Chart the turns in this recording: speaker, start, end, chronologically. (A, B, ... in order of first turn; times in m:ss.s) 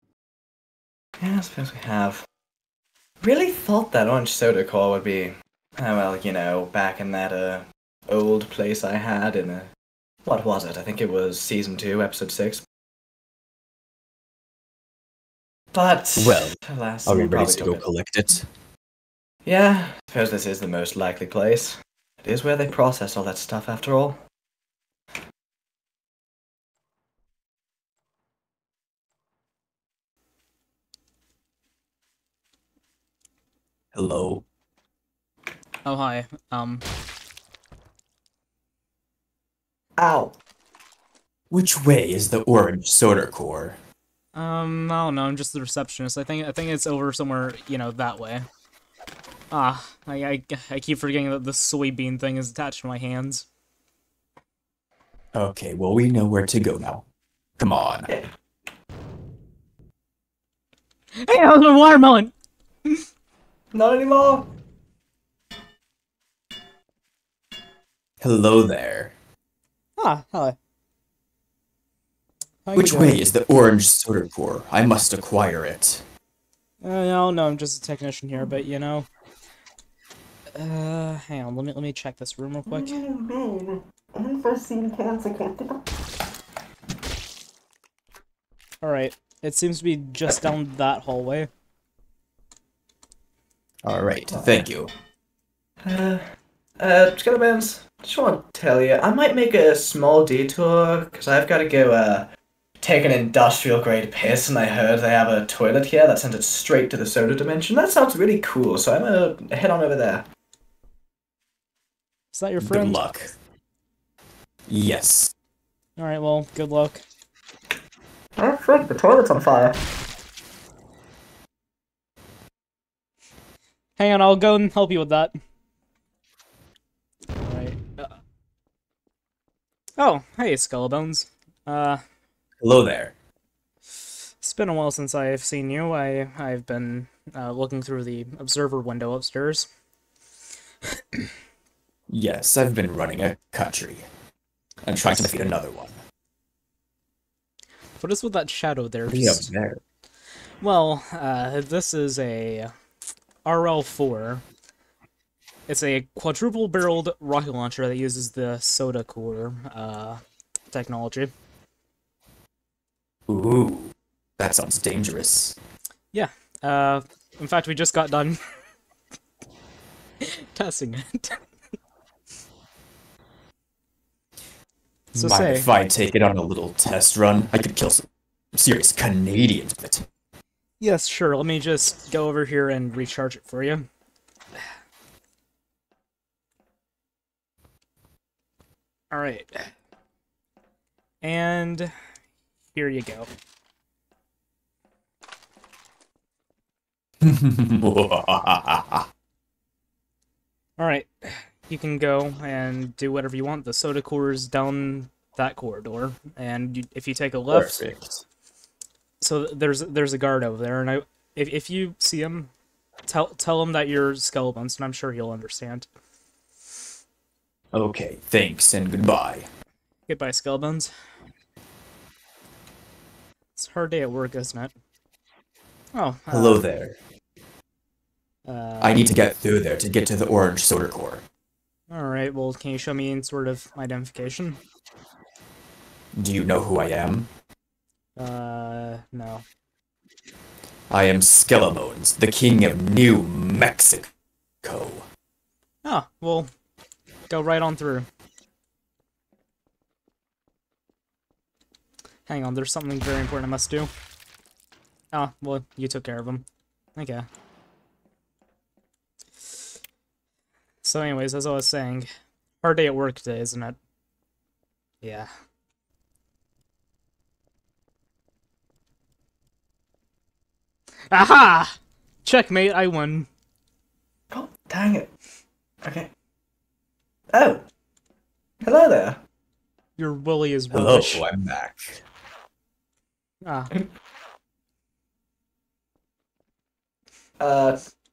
0:01.2-0:02.2 A
0:03.2-0:09.7 A
0:10.2-0:12.6 A
0:15.7-0:17.8 A
0:16.2-0:18.5 B
0:19.4-0:24.2 A
0:33.9-0:34.4 B
0:35.8-0:36.8 C
0:40.0-0:40.4 A
0:41.5-0:43.8 B
0:44.4-0:48.5 C
0:49.5-0:53.5 C
0:55.3-0:57.0 B
0:57.6-0:58.1 B
1:01.2-1:02.3 C
1:03.7-1:04.5 A
1:08.2-1:09.1 B
1:10.0-1:10.6 C
1:12.7-1:13.2 C
1:12.8-1:16.0 B
1:16.8-1:19.1 C
1:20.5-1:23.0 C
1:22.7-1:25.8 A
1:28.8-1:31.5 C
1:33.8-1:34.9 B
1:34.3-1:34.7 A
1:35.8-1:36.2 A
1:36.8-1:42.3 A
1:42.8-1:50.2 A
1:52.3-1:53.0 C
1:52.6-1:53.3 B
1:54.7-1:55.3 B
1:56.0-1:57.0 C
1:58.4-1:59.8 A
2:04.0-2:05.3 C
2:07.4-2:08.1 C
2:10.0-2:12.0 C
2:12.6-2:13.1 B
2:14.4-2:19.7 C
2:22.1-2:24.0 B
2:24.9-2:26.0 B
2:28.0-2:29.5 C
2:29.1-2:29.8 B
2:30.6-2:32.7 C
2:33.4-2:34.4 C
2:35.7-2:40.2 C
2:40.7-2:41.3 C
2:43.3-2:45.6 B
2:46.1-2:48.4 C
2:50.2-2:51.4 C
2:55.1-3:00.1 B
2:55.2-2:55.7 C
3:00.8-3:03.9 C
3:09.1-3:09.7 C
3:11.2-3:11.9 C
3:12.7-3:13.3 C
3:17.2-3:19.1 B
3:20.8-3:27.8 C
3:27.5-3:28.2 B
3:29.2-3:32.5 C
3:33.1-3:35.9 C
3:37.7-3:39.5 B
3:40.1-3:40.9 C
3:43.6-3:44.7 C
3:45.9-3:46.6 C
3:46.3-3:47.0 B
3:48.5-3:49.1 C
3:48.8-3:51.2 B
3:51.9-3:54.6 C
3:56.2-3:57.3 B
3:58.2-3:59.4 C
4:00.9-4:04.1 B
4:04.6-4:05.1 B
4:05.8-4:06.5 C
4:07.3-4:08.1 C
4:12.3-4:13.9 C
4:15.1-4:16.4 C
4:17.0-4:17.3 C
4:20.8-4:22.1 C
4:22.6-4:23.8 C
4:25.0-4:25.3 C
4:31.1-4:33.3 C
4:34.3-4:35.1 A
4:35.8-4:36.1 A
4:37.3-4:37.6 A
4:38.6-4:39.2 A
4:40.0-4:41.2 C
4:40.7-4:42.0 B
4:43.4-4:43.7 C
4:47.4-4:47.8 A